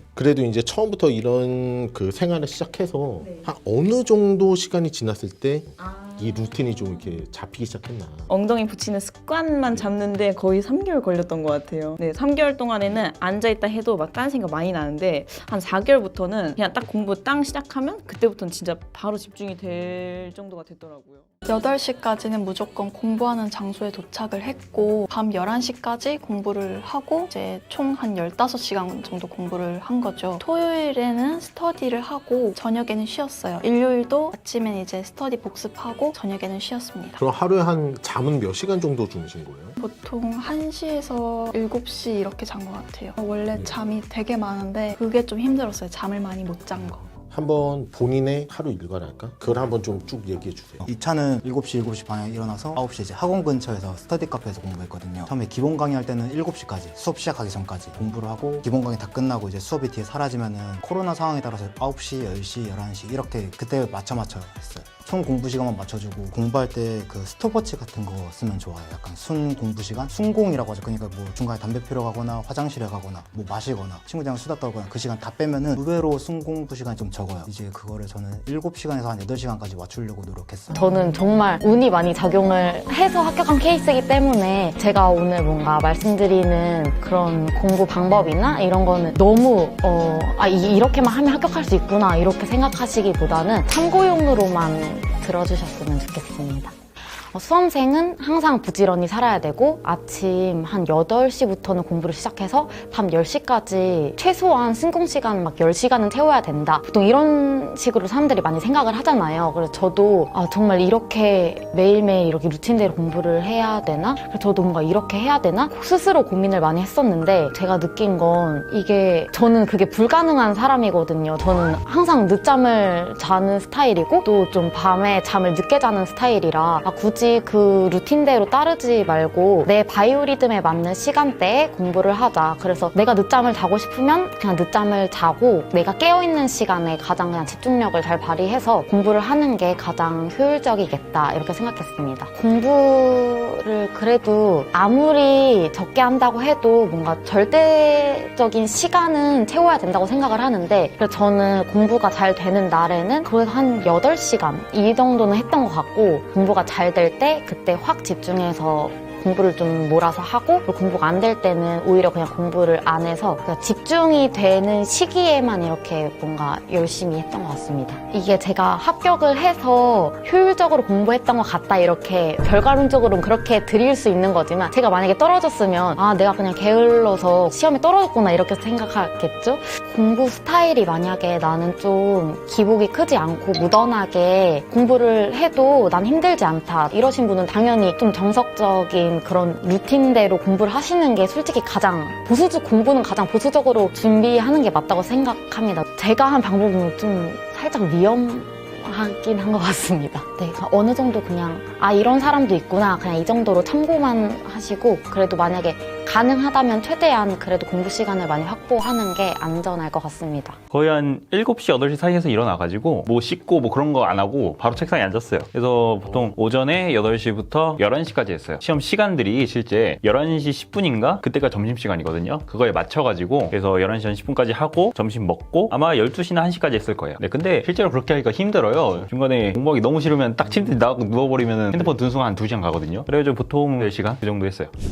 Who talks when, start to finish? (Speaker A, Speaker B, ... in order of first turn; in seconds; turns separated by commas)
Speaker A: 0.1-8.3, Speaker B: 3.2-3.5, Speaker B: 8.3-21.2, Speaker C: 21.4-37.2, Speaker A: 37.2-39.8, Speaker C: 39.8-47.1, Speaker A: 47.3-50.8, Speaker D: 50.8-80.8, Speaker E: 80.7-210.6, Speaker F: 210.7-234.7